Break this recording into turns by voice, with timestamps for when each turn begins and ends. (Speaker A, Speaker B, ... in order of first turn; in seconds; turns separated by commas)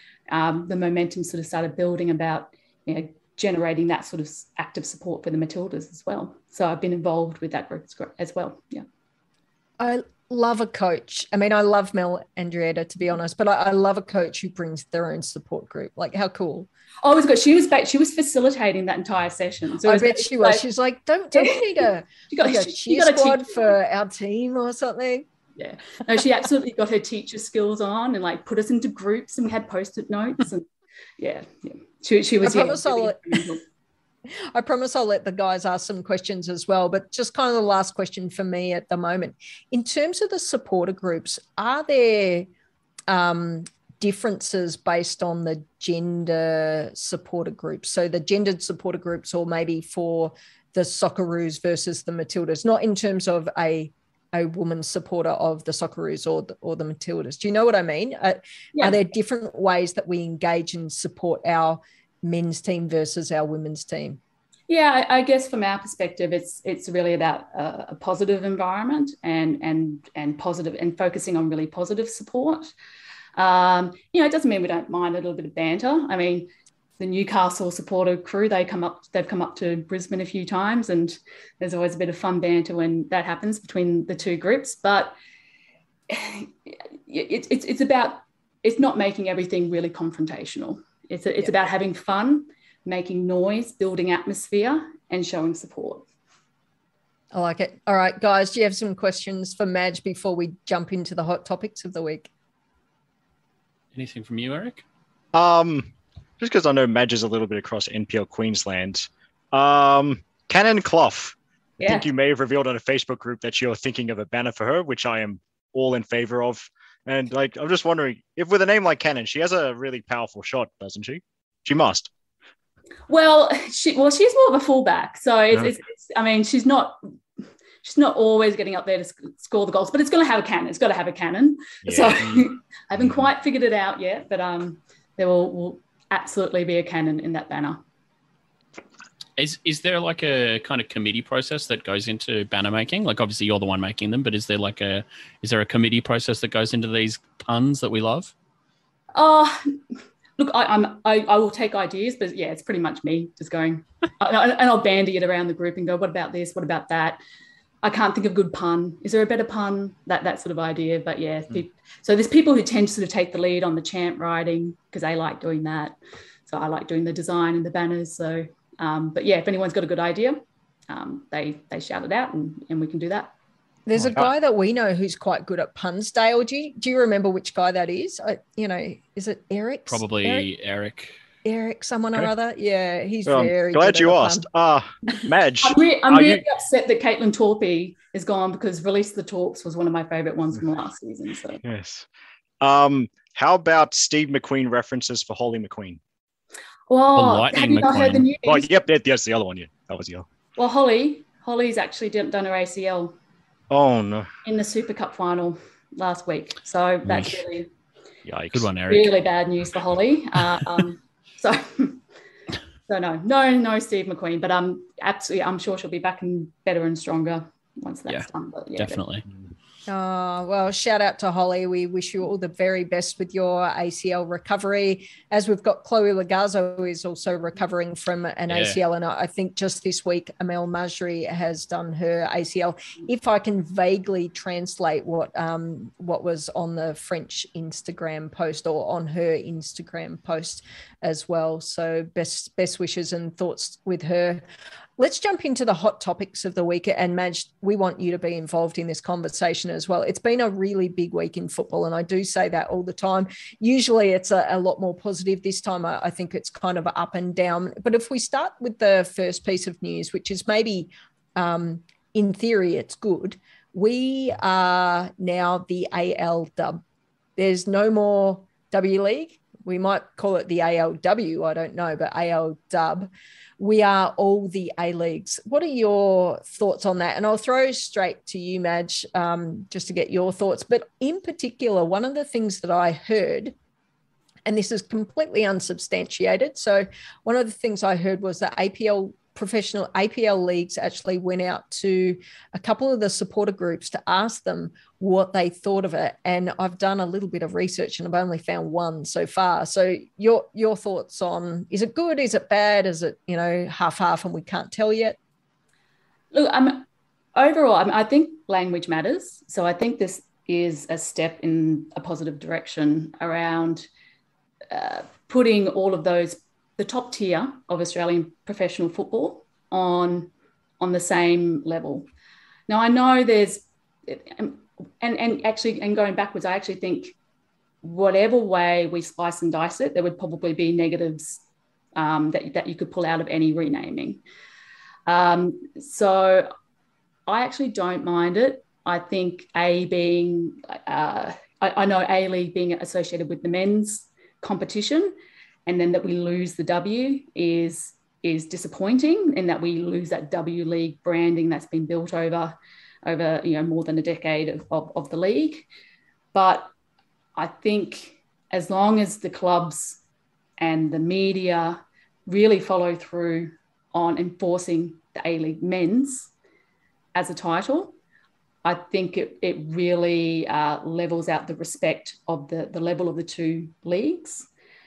Speaker A: 0.3-8.8, Speaker B: 9.8-16.7, Speaker A: 17.0-20.6, Speaker B: 19.8-25.3, Speaker A: 21.4-23.6, Speaker A: 25.6-30.7, Speaker A: 31.2-33.6, Speaker B: 32.4-33.4, Speaker B: 34.5-42.5, Speaker B: 43.1-64.2, Speaker A: 64.7-72.7, Speaker A: 73.4-85.2, Speaker A: 86.1-96.0, Speaker B: 97.3-102.3, Speaker C: 103.9-104.8, Speaker D: 105.3-122.1, Speaker A: 111.8-112.1, Speaker A: 123.1-127.0, Speaker A: 127.8-137.8, Speaker D: 131.8-133.3, Speaker C: 139.4-148.3, Speaker A: 149.1-149.8, Speaker A: 150.4-157.2, Speaker A: 157.8-173.3, Speaker B: 173.9-180.5, Speaker C: 179.9-181.2, Speaker B: 181.4-184.5, Speaker D: 183.3-186.4, Speaker A: 185.6-191.6, Speaker D: 191.6-192.1, Speaker D: 192.6-196.0, Speaker A: 196.9-198.8, Speaker C: 197.2-198.3, Speaker D: 198.4-200.3, Speaker A: 200.6-203.2, Speaker D: 203.7-204.3, Speaker A: 204.4-207.7, Speaker C: 207.1-207.4, Speaker D: 208.2-208.7, Speaker C: 208.5-209.1, Speaker A: 208.9-212.0, Speaker A: 212.9-219.0, Speaker C: 218.8-219.2, Speaker B: 219.9-244.4, Speaker C: 228.5-228.8, Speaker B: 245.0-266.8, Speaker B: 267.4-283.6, Speaker B: 284.5-305.2, Speaker A: 306.3-313.9, Speaker A: 314.7-322.1, Speaker A: 322.7-327.2, Speaker A: 327.8-331.4, Speaker A: 331.9-334.2, Speaker A: 335.1-336.5, Speaker A: 337.3-345.1, Speaker A: 345.7-355.7, Speaker A: 356.3-356.7, Speaker A: 357.4-360.0, Speaker A: 360.6-366.3, Speaker A: 367.1-368.0, Speaker A: 368.6-374.5